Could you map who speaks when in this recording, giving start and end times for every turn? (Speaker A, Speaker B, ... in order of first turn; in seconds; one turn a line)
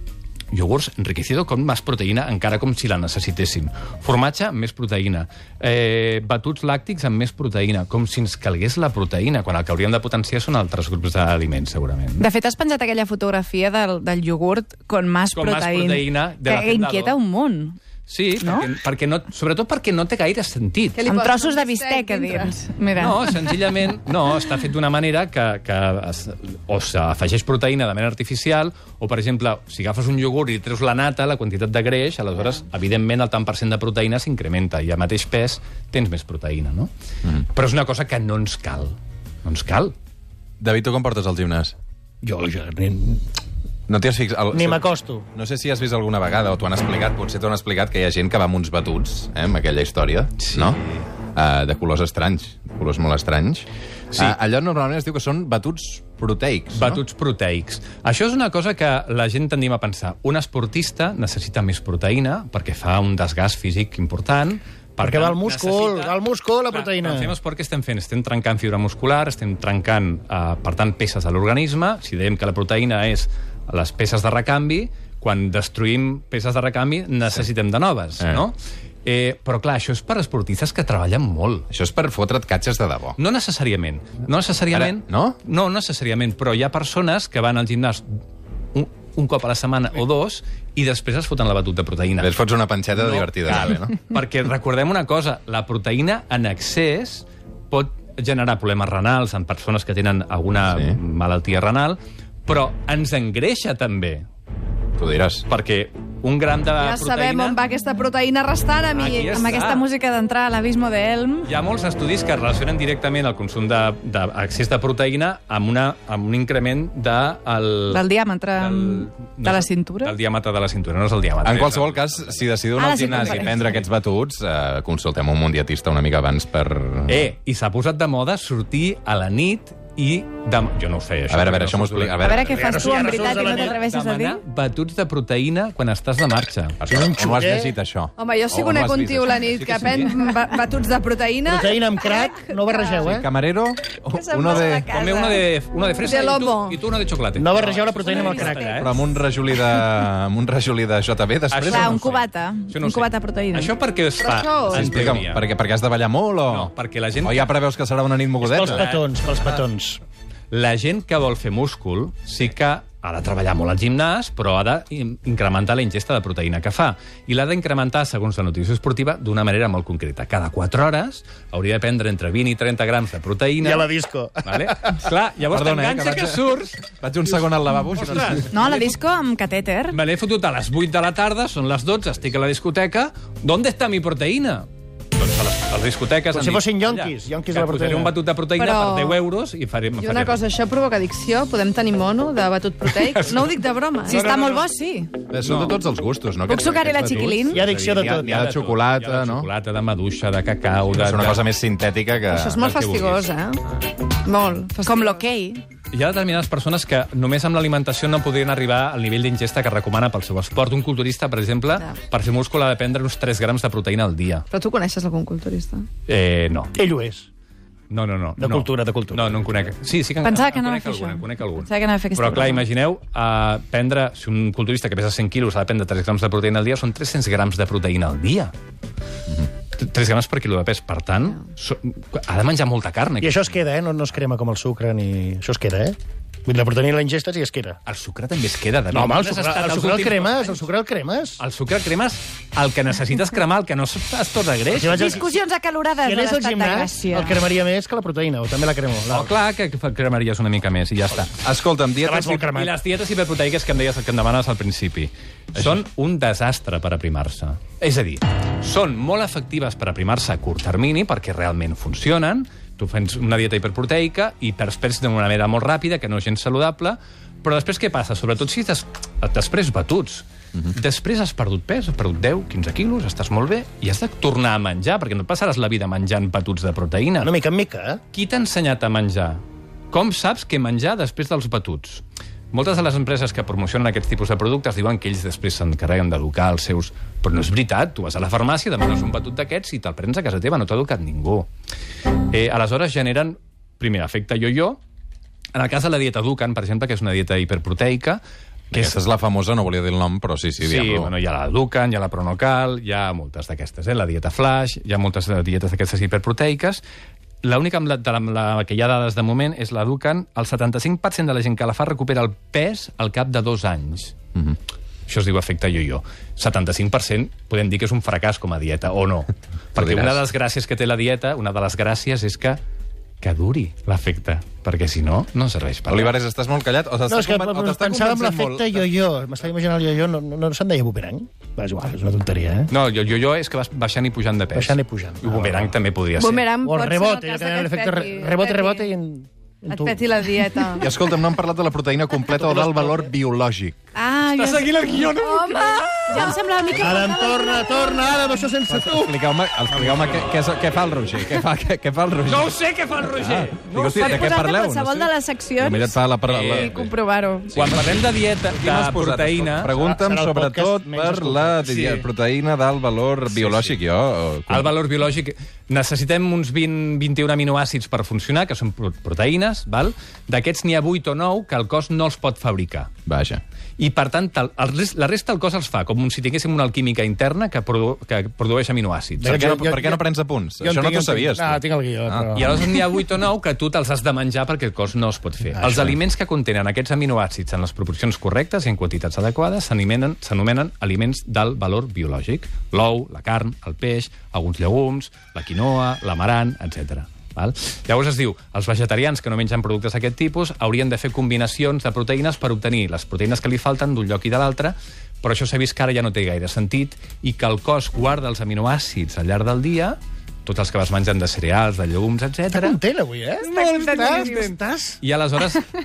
Speaker A: 0.5-12.3
Speaker B: 12.2-17.8
Speaker A: 15.3-17.2
Speaker A: 18.1-21.0
Speaker B: 18.4-18.6
Speaker C: 21.0-22.6
Speaker B: 21.1-23.2
Speaker A: 22.9-36.9
Speaker A: 37.5-39.9
Speaker D: 40.6-41.7
Speaker E: 42.2-43.2
Speaker D: 43.9-44.8
Speaker E: 44.5-45.2
Speaker D: 45.3-50.8
Speaker A: 50.4-51.1
Speaker D: 51.3-56.9
Speaker A: 54.1-54.4
Speaker A: 56.7-66.2
Speaker E: 65.0-67.3
Speaker A: 66.7-81.7
Speaker D: 81.7-83.2
Speaker A: 83.2-88.0
Speaker D: 84.7-85.4
Speaker A: 88.7-92.3
Speaker D: 92.2-93.9
Speaker A: 92.9-104.2
Speaker D: 105.0-105.4
Speaker A: 105.5-107.6
Speaker C: 106.8-109.8
Speaker A: 108.9-109.8
Speaker B: 109.4-111.5
Speaker A: 111.4-118.0
Speaker B: 117.9-120.2
Speaker A: 118.5-123.8
Speaker D: 121.4-127.1
Speaker B: 122.8-123.8
Speaker A: 127.1-136.8
Speaker D: 131.3-132.8
Speaker B: 132.2-134.4
Speaker E: 132.5-133.8
Speaker D: 136.8-139.8
Speaker E: 136.8-137.8
Speaker C: 138.2-143.1
Speaker A: 139.4-140.2
Speaker E: 141.4-143.3
Speaker D: 143.1-144.9
Speaker C: 144.1-145.4
Speaker A: 144.9-149.1
Speaker C: 146.0-146.8
Speaker E: 147.3-148.6
Speaker C: 148.0-148.9
Speaker D: 148.7-152.1
Speaker A: 151.5-155.4
Speaker B: 151.7-153.7
Speaker C: 154.2-155.0
Speaker D: 155.0-156.7
Speaker A: 156.5-157.5
Speaker D: 157.2-158.8
Speaker E: 158.4-160.0
Speaker A: 158.5-159.1
Speaker A: 160.5-173.9
Speaker E: 173.6-175.0
Speaker A: 174.4-176.9
Speaker D: 175.5-178.5
Speaker A: 177.9-178.9
Speaker B: 178.5-180.0
Speaker A: 179.9-190.4
Speaker E: 186.3-188.1
Speaker C: 188.6-189.2
Speaker C: 190.0-194.6
Speaker A: 192.8-193.4
Speaker B: 194.1-195.2
Speaker E: 194.1-194.6
Speaker D: 195.3-199.4
Speaker A: 195.4-195.8
Speaker B: 196.5-197.6
Speaker E: 197.5-198.4
Speaker A: 197.6-201.4
Speaker D: 200.9-202.6
Speaker C: 202.2-203.6
Speaker A: 202.6-203.3
Speaker C: 204.2-205.3
Speaker B: 204.8-205.6
Speaker A: 205.9-214.4
Speaker C: 214.5-215.9
Speaker A: 216.1-216.7
Speaker E: 216.7-217.3
Speaker A: 217.9-228.5
Speaker E: 218.4-219.7
Speaker B: 220.2-222.6
Speaker A: 229.7-233.5
Speaker E: 233.2-237.8
Speaker A: 237.8-240.6
Speaker E: 238.9-241.4
Speaker A: 241.4-245.2
Speaker E: 244.7-245.4
Speaker B: 244.9-247.3
Speaker E: 246.0-249.3
Speaker A: 249.1-251.4
Speaker D: 251.4-252.2
Speaker E: 251.9-252.7
Speaker A: 252.1-277.3
Speaker E: 277.2-278.0
Speaker A: 278.1-279.4
Speaker A: 279.9-291.5
Speaker A: 292.3-294.8
Speaker A: 295.5-299.0
Speaker D: 298.7-301.1
Speaker A: 300.6-306.8
Speaker A: 307.4-314.1
Speaker A: 315.1-322.6
Speaker D: 319.8-320.2
Speaker A: 323.2-326.1
Speaker D: 325.9-328.9
Speaker E: 327.1-332.7
Speaker A: 332.7-336.5
Speaker E: 334.5-335.7
Speaker C: 336.2-338.8
Speaker E: 336.6-339.9
Speaker C: 339.7-340.9
Speaker D: 340.8-343.7
Speaker E: 342.6-343.1
Speaker B: 343.9-345.1
Speaker A: 344.3-346.4
Speaker C: 345.1-347.0
Speaker B: 346.1-348.1
Speaker E: 346.7-349.2
Speaker D: 348.7-352.5
Speaker A: 349.7-350.1
Speaker A: 352.2-354.3
Speaker D: 353.1-356.9
Speaker B: 353.8-356.0
Speaker A: 356.3-356.9
Speaker B: 356.5-357.5
Speaker D: 357.5-364.7
Speaker A: 357.5-359.7
Speaker E: 359.6-362.0
Speaker A: 363.3-363.8
Speaker A: 364.5-372.9
Speaker D: 373.1-373.4
Speaker A: 373.8-379.5
Speaker E: 379.2-380.0
Speaker D: 379.2-382.3
Speaker E: 380.6-382.6
Speaker A: 382.3-412.8
Speaker E: 385.5-386.0
Speaker E: 412.5-415.0
Speaker A: 413.4-415.7
Speaker B: 413.6-414.3